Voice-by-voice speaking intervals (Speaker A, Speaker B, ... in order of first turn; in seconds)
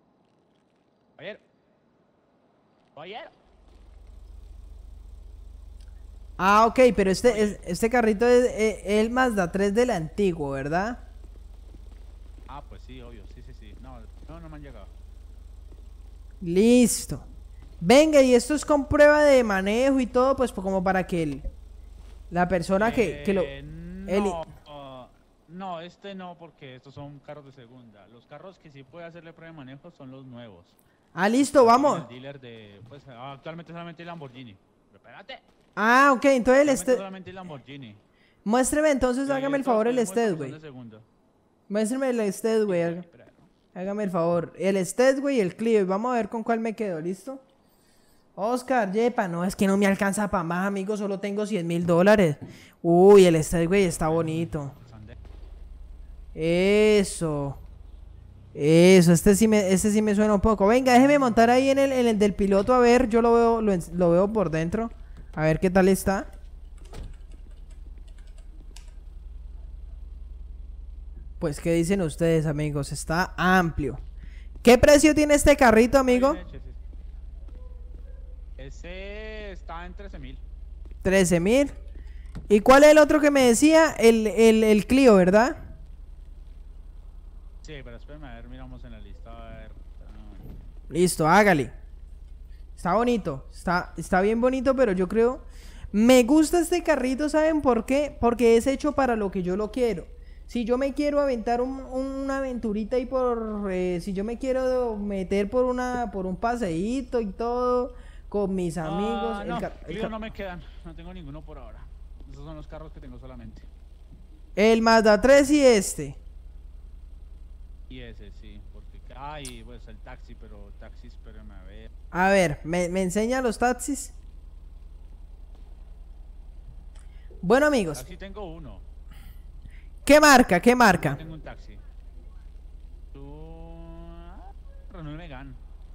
Speaker A: 3.0-3.3, 7.2-7.6, 12.5-14.9, 22.8-30.8, 31.6-35.4, 36.6-38.0, 39.2-41.1, 42.7-43.5, 53.9-55.2, 76.1-76.8, 78.6-80.4, 87.6-90.5, 108.8-113.7, 117.9-121.9, 127.9-128.8, 130.9-131.8, 133.1-135.6
Speaker B: 6.4-11.0, 16.4-17.3, 17.8-21.4, 22.3-23.5, 24.1-24.4, 31.1-32.1, 35.8-37.0, 38.5-40.6, 41.7-43.0, 43.8-47.4, 48.4-54.7, 56.4-57.6, 58.5-66.3, 71.4-74.0, 74.6-76.4, 81.0-81.8, 82.5-85.7, 90.9-91.7, 92.8-110.1, 114.6-116.2, 122.1-124.1, 127.4-128.1, 130.1-131.2